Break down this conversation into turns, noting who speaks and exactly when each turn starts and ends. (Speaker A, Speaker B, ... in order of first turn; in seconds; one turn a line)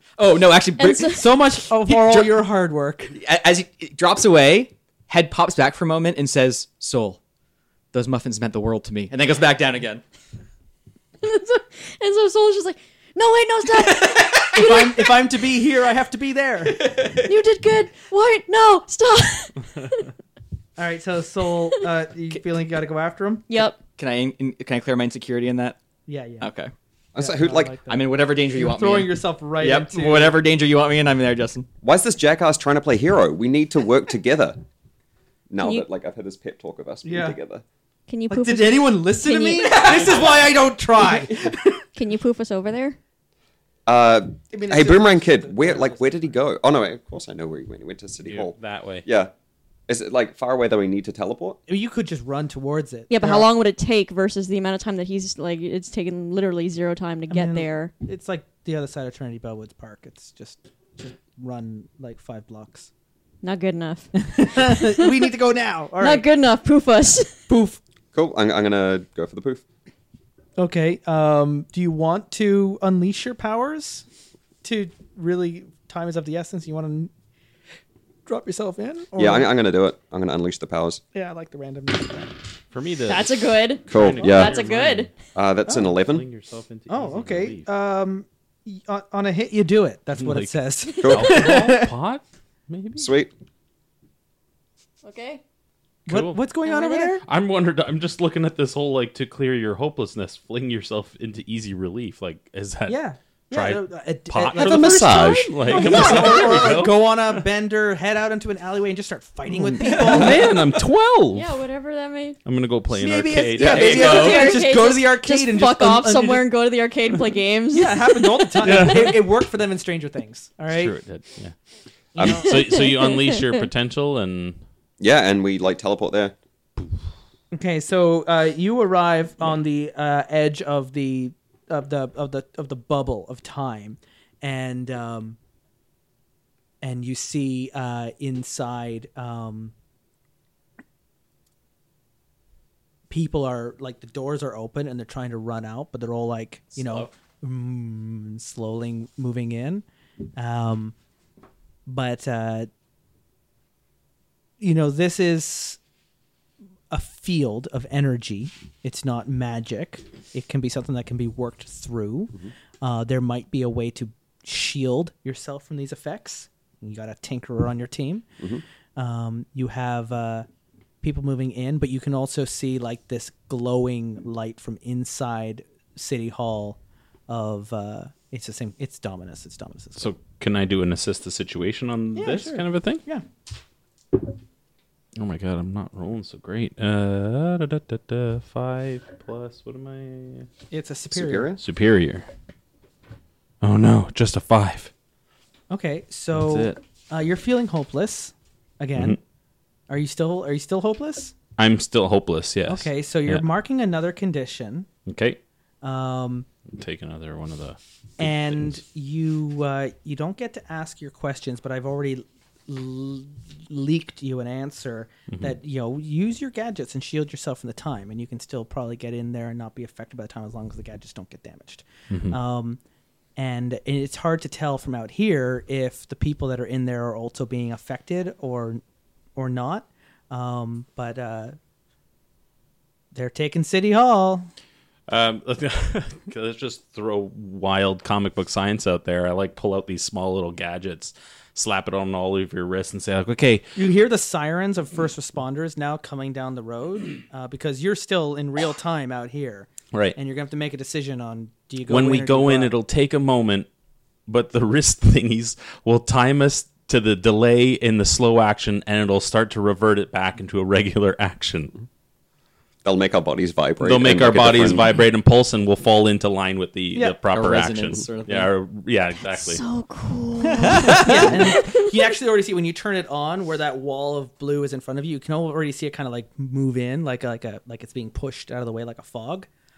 Speaker A: 0.2-2.3
Speaker B: 0.8-1.2
Speaker C: 1.1-3.1
Speaker A: 3.1-7.2
Speaker A: 7.9-10.0
Speaker B: 11.2-15.0
Speaker A: 13.7-14.9
Speaker C: 14.5-16.9
Speaker A: 16.6-17.4
Speaker B: 17.2-20.1
Speaker C: 20.8-23.6
Speaker B: 23.5-23.8
Speaker A: 23.9-25.8
Speaker C: 26.1-26.5
Speaker A: 26.4-26.7
Speaker D: 27.1-27.8
Speaker C: 27.2-30.4
Speaker A: 27.9-31.7
Speaker D: 31.8-34.6
Speaker D: 35.5-37.6
Speaker B: 35.6-35.9
Speaker C: 37.0-37.4
Speaker B: 38.1-40.1
Speaker C: 38.3-41.8
Speaker A: 39.6-40.4
Speaker B: 41.9-43.0
Speaker D: 43.9-49.3
Speaker C: 44.5-46.3
Speaker E: 48.2-49.0
Speaker D: 49.9-51.6
Speaker C: 51.7-53.5
Speaker B: 53.1-57.9
Speaker C: 57.3-62.9
Speaker B: 63.4-65.1
Speaker C: 64.2-66.2
Speaker B: 66.0-67.4
Speaker C: 67.5-67.8
Speaker D: 68.1-69.6
Speaker C: 70.6-74.0
Speaker C: 74.6-77.1
Speaker C: 78.2-79.5
Speaker D: 79.2-81.0
Speaker C: 81.1-82.3
Speaker E: 82.7-85.1
Speaker B: 83.1-85.1
Speaker D: 83.9-84.5
Speaker D: 85.3-86.2
Speaker C: 85.7-85.9
Speaker E: 85.8-87.7
Speaker C: 86.9-91.9
Speaker E: 90.2-93.1
Speaker D: 91.0-91.5
Speaker D: 93.0-93.3
Speaker B: 95.0-95.4
Speaker E: 96.1-96.4
Speaker C: 96.1-97.2
Speaker B: 96.6-97.2
Speaker E: 97.2-103.0
Speaker C: 102.9-110.6
Speaker E: 103.5-107.4
Speaker D: 104.5-106.7
Speaker E: 109.5-111.5
Speaker A: 109.8-110.4
Speaker B: 111.3-112.4
Speaker E: 112.4-114.4
Speaker C: 112.9-116.5
Speaker A: 113.6-114.6
Speaker B: 114.0-118.9
Speaker C: 117.7-120.9
Speaker E: 118.6-119.2
Speaker E: 120.7-121.5
Speaker C: 122.1-122.6
Speaker E: 122.2-124.6
Speaker B: 122.2-123.6
Speaker D: 125.0-126.3
Speaker C: 127.5-135.4
Speaker C: 136.8-139.7
Speaker C: 143.1-149.8
Speaker A: 146.7-147.1
Speaker C: 150.4-150.9
Speaker C: 151.8-152.7
Speaker C: 154.6-155.8
Speaker C: 156.9-168.2
Speaker C: 168.9-170.5
Speaker C: 171.0-180.1
Speaker E: 180.0-183.0
Speaker C: 182.2-183.2
Speaker E: 185.2-190.5
Speaker C: 190.7-191.5
Speaker D: 191.1-191.6
Speaker E: 191.6-192.3
Speaker E: 193.6-194.9
Speaker C: 195.7-199.2
Speaker E: 196.3-196.8
Speaker C: 199.9-201.3
Speaker E: 201.6-203.4
Speaker C: 202.7-204.9
Speaker E: 205.1-205.4
Speaker C: 205.8-206.5
Speaker E: 206.7-208.8
Speaker C: 208.2-222.8
Speaker E: 222.1-222.4
Speaker C: 223.3-228.8
Speaker C: 229.3-231.6
Speaker C: 233.1-234.5
Speaker E: 235.1-243.6
Speaker C: 243.8-252.7
Speaker E: 251.9-253.7
Speaker E: 254.3-261.7
Speaker D: 262.8-264.9
Speaker E: 263.8-269.6
Speaker A: 267.3-268.5
Speaker B: 269.3-271.9
Speaker A: 270.6-271.3
Speaker C: 270.9-279.5